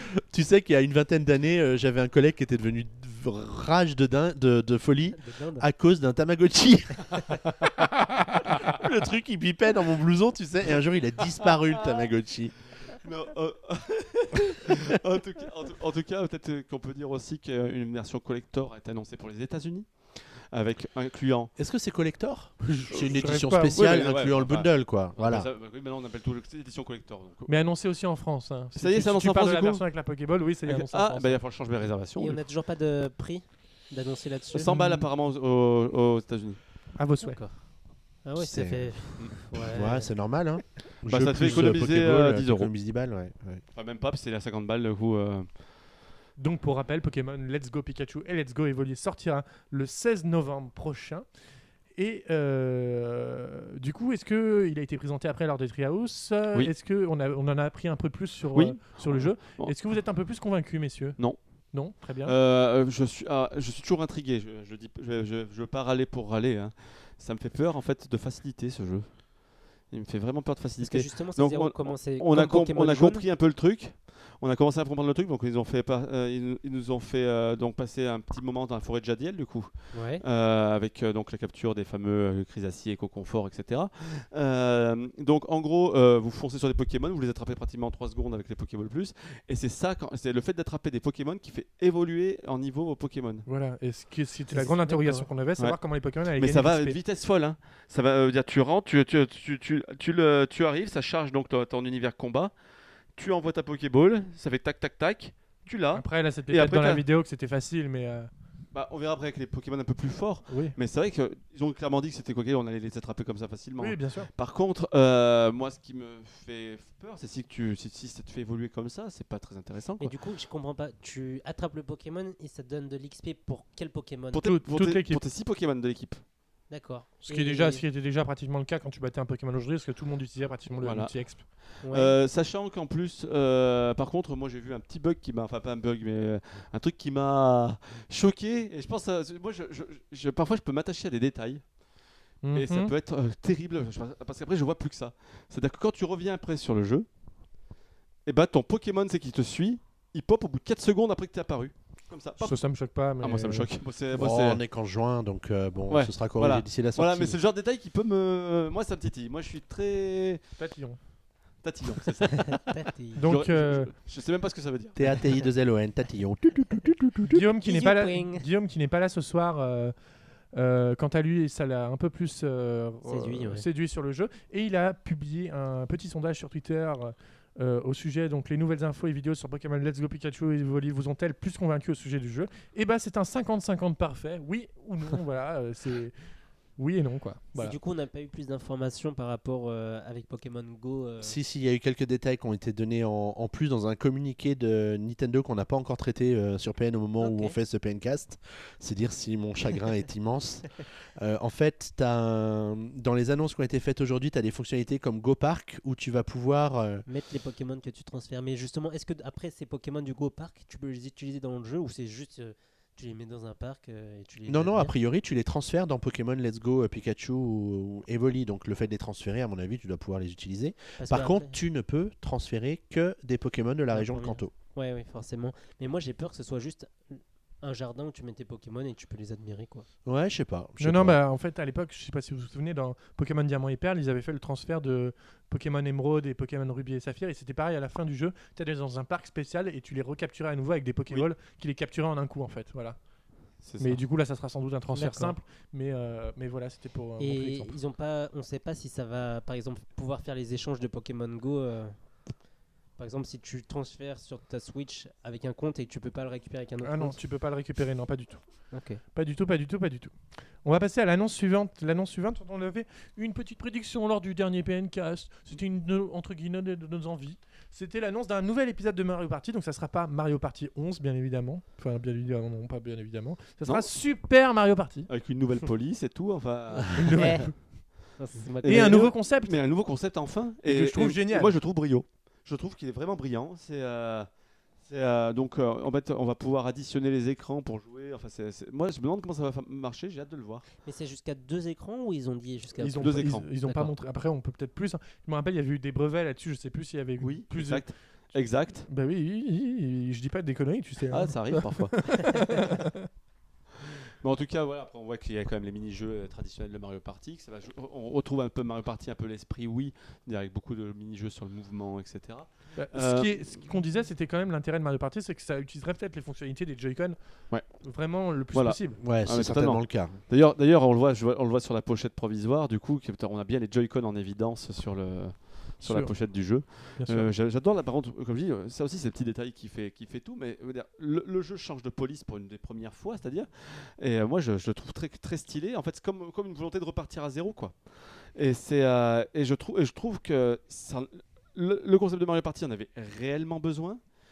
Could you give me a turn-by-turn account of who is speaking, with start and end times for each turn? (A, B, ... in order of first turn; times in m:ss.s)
0:00.3-0:12.5 A
0:05.2-0:05.6 B
0:12.9-0:21.5 C
0:21.6-0:25.5 A
0:22.6-0:24.0 D
0:23.7-0:27.5 C
0:27.5-0:31.4 D
0:28.7-0:29.8 C
0:30.6-0:32.4 C
0:32.2-0:34.7 B
0:34.5-0:36.6 C
0:34.7-0:35.0 D
0:37.0-0:37.4 D
0:37.2-0:37.7 B
0:38.2-0:40.1 B
0:38.4-0:43.6 A
0:41.1-0:42.7 C
0:43.7-0:45.6 C
0:46.4-0:51.2 D
0:52.0-1:02.3 D
0:58.5-0:59.7 C
1:02.2-1:09.3 C
1:09.9-1:33.4 C
1:10.8-1:13.2 B
1:19.9-1:20.2 B
1:33.4-1:37.0 D
1:34.5-1:35.3 B
1:36.3-1:42.5 C
1:43.1-1:47.0 C
1:45.9-1:48.3 D
1:48.7-2:00.1 C
1:50.5-1:50.7 D
1:53.8-1:54.3 D
2:00.0-2:04.4 B
2:04.3-2:06.2 C
2:04.4-2:05.2 D
2:06.7-2:07.8 B
2:07.2-2:11.4 D
2:10.8-2:21.6 C
2:11.8-2:12.1 B
2:22.4-2:22.9 D
2:22.5-2:27.1 C
2:28.2-2:32.6 C
2:32.4-2:33.7 D
2:33.2-2:34.6 C
2:34.1-2:37.4 A
2:35.9-2:40.4 C
2:40.6-2:41.0 D
2:41.6-2:45.0 C
2:42.3-2:43.3 B
2:43.2-2:43.9 D
2:45.0-2:47.4 A
2:47.3-2:49.9 D
2:47.6-2:48.5 B
2:50.5-3:06.1 D
2:53.0-2:53.6 B
3:06.8-3:07.8 D
3:07.6-3:11.4 B
3:11.2-3:27.0 A
3:17.2-3:17.6 B
3:27.0-3:34.9 B
3:34.5-3:44.5 A
3:41.0-3:41.6 B
3:43.9-3:49.8 B
3:50.0-3:51.2 A
3:50.8-4:03.0 D
4:03.6-4:04.0 C
4:03.8-4:07.7 D
4:04.9-4:05.4 B
4:07.2-4:12.0 B
4:13.0-4:17.2 B
4:16.8-4:18.4 D
4:18.7-4:19.0 B
4:19.1-4:35.1 D
4:35.1-4:37.4 C
4:36.9-4:37.6 D
4:37.2-4:37.6 B
4:38.1-4:39.1 B
4:38.6-4:44.3 C
4:38.6-4:39.6 D
4:40.6-4:41.5 D
4:44.8-4:50.6 C
4:50.8-4:53.9 B
4:52.8-5:03.0 D
4:52.8-4:53.4 C
4:57.2-4:58.9 C
5:01.1-5:02.5 C
5:04.2-5:13.6 C
5:12.8-5:17.2 D
5:17.8-5:19.0 D
5:18.5-5:37.8 C
5:19.0-5:20.2 A
5:25.8-5:26.1 D
5:27.0-5:27.3 D
5:38.3-5:44.0 C